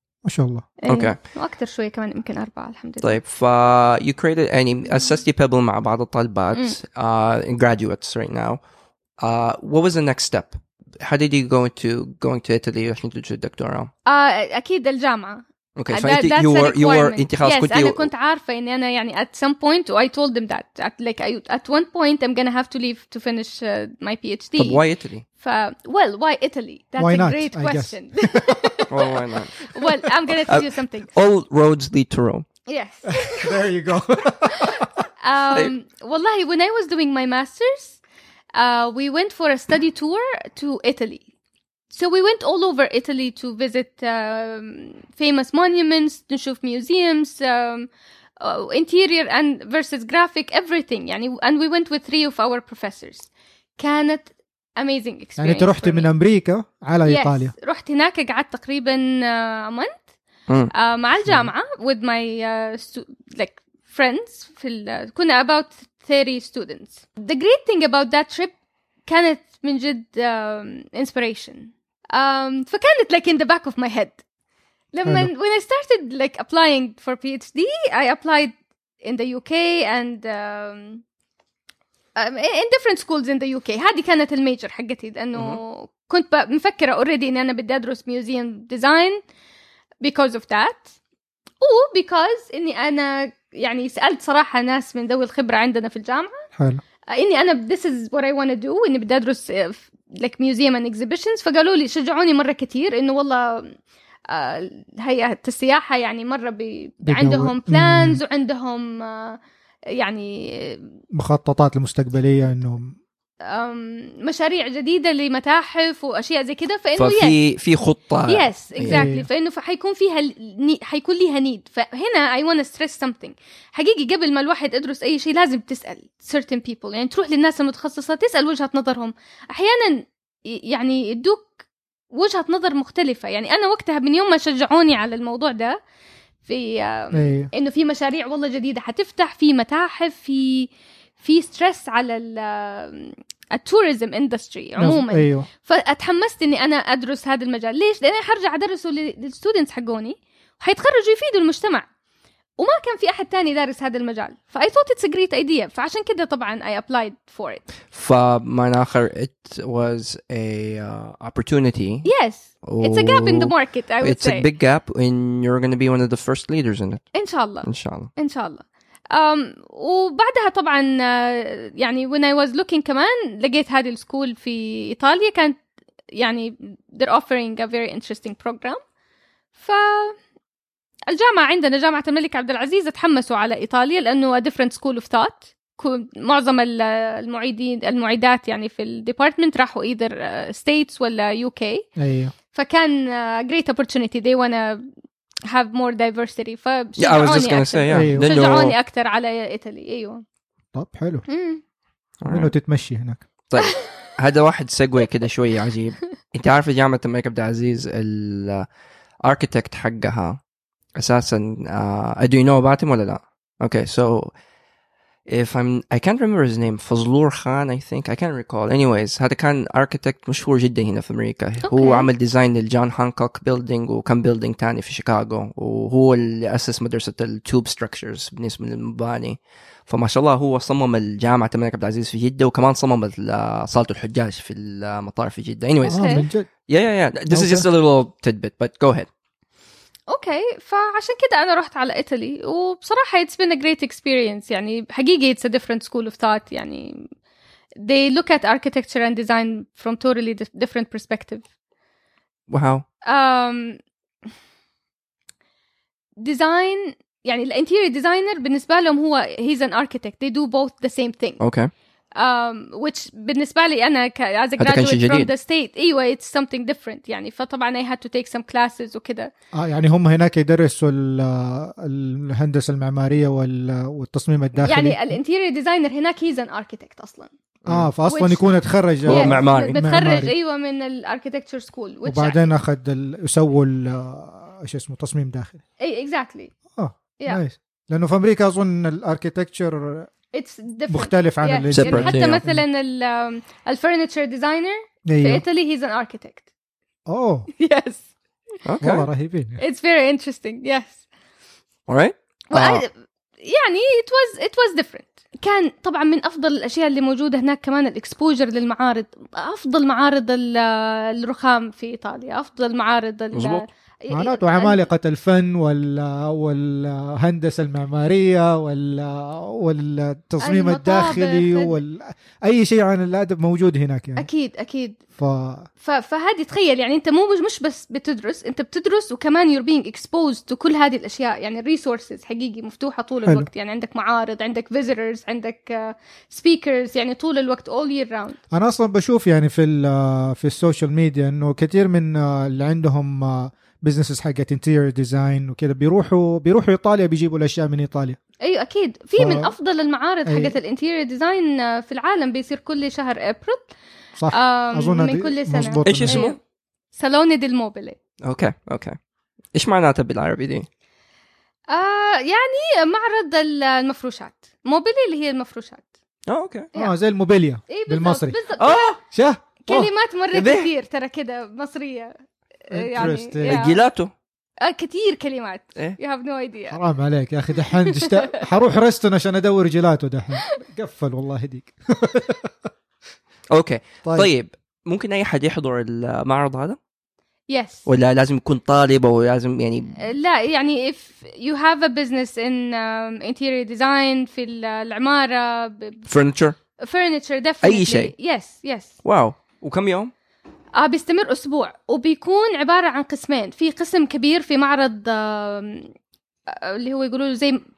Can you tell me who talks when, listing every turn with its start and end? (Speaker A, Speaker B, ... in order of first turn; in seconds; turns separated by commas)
Speaker A: 0.2-0.7, Speaker B: 0.8-3.2, Speaker C: 0.9-1.2, Speaker C: 3.0-8.6, Speaker C: 9.2-13.9, Speaker B: 14.1-24.8, Speaker C: 15.8-18.1, Speaker C: 24.6-25.2, Speaker B: 25.4-31.1, Speaker A: 27.0-28.9, Speaker C: 28.9-29.7, Speaker C: 30.5-32.5, Speaker B: 32.7-33.6, Speaker A: 33.1-35.0, Speaker B: 34.5-38.0, Speaker B: 38.5-41.2, Speaker B: 41.9-47.9, Speaker B: 48.4-56.1, Speaker A: 55.4-57.5, Speaker B: 57.0-60.0, Speaker B: 60.7-68.5, Speaker A: 61.2-61.5, Speaker B: 69.1-74.2, Speaker B: 74.9-81.0, Speaker B: 82.2-89.2, Speaker B: 90.0-91.0, Speaker B: 91.6-96.5, Speaker A: 96.6-96.8, Speaker B: 97.1-103.8, Speaker B: 104.3-109.4, Speaker A: 107.0-108.2, Speaker B: 110.0-110.9, Speaker A: 111.1-113.0, Speaker B: 113.5-117.4, Speaker C: 117.0-119.1, Speaker B: 118.3-131.5, Speaker A: 118.9-119.3, Speaker B: 132.1-135.8, Speaker B: 136.4-151.9, Speaker A: 137.1-137.5, Speaker A: 144.8-145.5, Speaker B: 152.6-157.6, Speaker C: 157.9-162.1, Speaker B: 162.1-164.5, Speaker C: 162.6-167.1, Speaker B: 167.1-175.6, Speaker C: 167.6-168.1, Speaker B: 176.2-178.8, Speaker B: 179.6-180.2, Speaker B: 181.1-191.9, Speaker A: 192.0-192.3, Speaker B: 192.5-194.9, Speaker B: 195.5-200.2, Speaker C: 197.0-198.8, Speaker A: 197.9-198.3, Speaker A: 200.7-201.2, Speaker B: 201.3-201.6, Speaker C: 202.2-202.5, Speaker A: 202.3-203.2, Speaker C: 203.5-208.7, Speaker B: 203.6-203.9, Speaker C: 209.2-210.4, Speaker C: 211.0-214.3, Speaker C: 215.3-239.1, Speaker B: 221.7-222.1, Speaker A: 235.8-236.5, Speaker B: 235.9-236.2, Speaker A: 237.3-237.7, Speaker B: 240.1-247.0, Speaker B: 247.8-251.4, Speaker C: 252.5-252.8, Speaker B: 253.1-253.8, Speaker B: 256.2-261.4, Speaker C: 261.4-261.7, Speaker B: 262.2-269.3, Speaker C: 264.6-265.3, Speaker A: 269.5-275.1, Speaker B: 274.6-277.3, Speaker A: 277.7-280.3, Speaker B: 278.1-278.4, Speaker B: 279.1-282.5, Speaker C: 279.1-279.8, Speaker A: 282.1-285.6, Speaker B: 285.8-286.5, Speaker A: 286.8-290.1, Speaker B: 290.3-296.4, Speaker A: 290.9-292.6, Speaker C: 291.7-292.4, Speaker A: 295.1-295.4, Speaker A: 297.1-297.5, Speaker B: 297.6-298.1, Speaker C: 298.6-299.1, Speaker A: 298.8-299.6, Speaker B: 299.6-301.0, Speaker C: 301.9-302.9, Speaker B: 302.5-302.9, Speaker B: 303.4-314.8, Speaker C: 313.3-313.6, Speaker A: 314.1-324.3, Speaker B: 320.4-321.8, Speaker B: 324.2-325.0, Speaker A: 325.2-325.7, Speaker B: 325.8-338.4, Speaker A: 338.5-348.2, Speaker B: 348.4-353.7, Speaker A: 349.2-349.5, Speaker A: 350.3-350.6, Speaker A: 354.2-356.3, Speaker B: 354.3-356.4, Speaker C: 355.9-356.4, Speaker B: 356.9-358.0, Speaker C: 358.2-359.0, Speaker C: 359.5-360.7, Speaker B: 361.7-365.9, Speaker C: 366.3-366.7, Speaker A: 366.8-368.4, Speaker B: 367.7-369.0, Speaker C: 368.6-369.0, Speaker A: 369.1-369.9, Speaker B: 369.6-372.1, Speaker C: 370.3-370.7, Speaker B: 372.7-373.8, Speaker A: 372.7-373.6, Speaker C: 373.5-374.1, Speaker B: 374.6-376.8, Speaker A: 376.7-382.5, Speaker B: 377.6-378.4, Speaker C: 383.5-386.8, Speaker B: 387.5-387.9, Speaker C: 387.9-390.0, Speaker B: 390.0-396.1, Speaker C: 396.1-396.6, Speaker B: 396.8-399.0, Speaker C: 397.6-398.1, Speaker C: 399.0-400.1, Speaker B: 400.8-405.9, Speaker B: 406.5-407.6